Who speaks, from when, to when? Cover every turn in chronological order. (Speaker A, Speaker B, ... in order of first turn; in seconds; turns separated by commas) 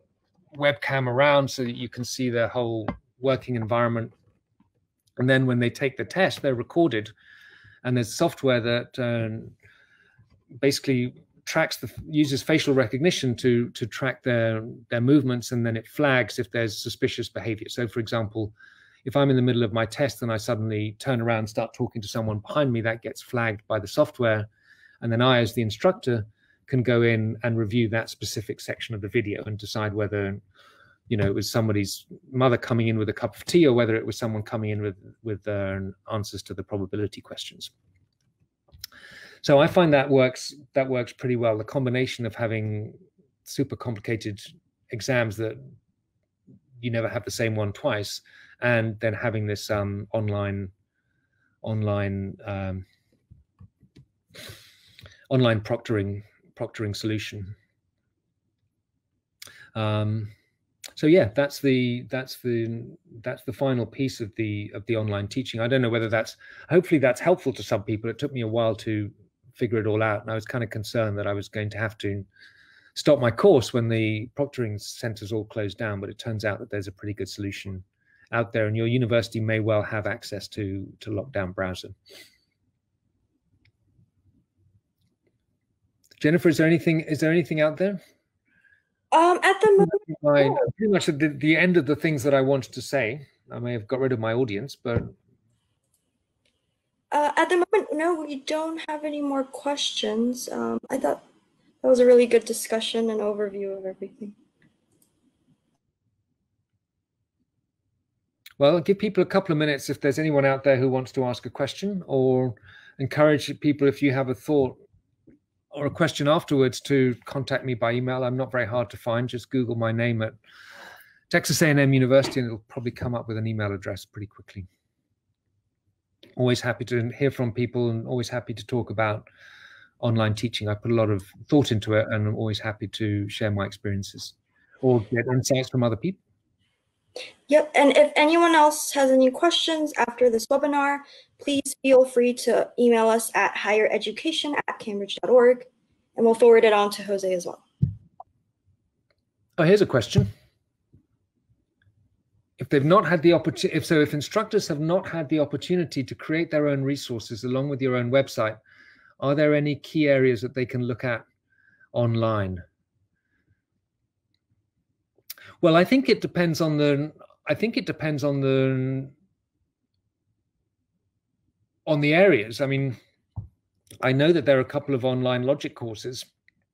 Speaker A: 0.5-4.1, Speaker A: 5.2-7.1, Speaker A: 7.8-9.5, Speaker A: 10.6-18.5, Speaker A: 19.0-24.5, Speaker A: 25.0-30.4, Speaker A: 31.1-37.7, Speaker A: 39.4-45.6, Speaker A: 46.8-50.7, Speaker A: 51.6-52.9, Speaker A: 55.3-57.5, Speaker A: 59.7-60.3, Speaker A: 61.0-72.2, Speaker A: 73.0-81.9, Speaker A: 86.2-88.0, Speaker B: 89.1-90.5, Speaker A: 89.8-95.1, Speaker B: 97.1-101.2, Speaker B: 101.8-104.3, Speaker A: 108.6-114.8, Speaker A: 115.7-120.3, Speaker A: 121.3-124.7, Speaker A: 126.4-129.3, Speaker A: 130.0-136.2, Speaker B: 137.5-147.6, Speaker A: 149.6-150.3, Speaker A: 152.6-158.6, Speaker A: 159.2-161.2, Speaker A: 161.9-162.6, Speaker A: 165.6-169.1, Speaker A: 171.8-173.0, Speaker A: 174.0-176.3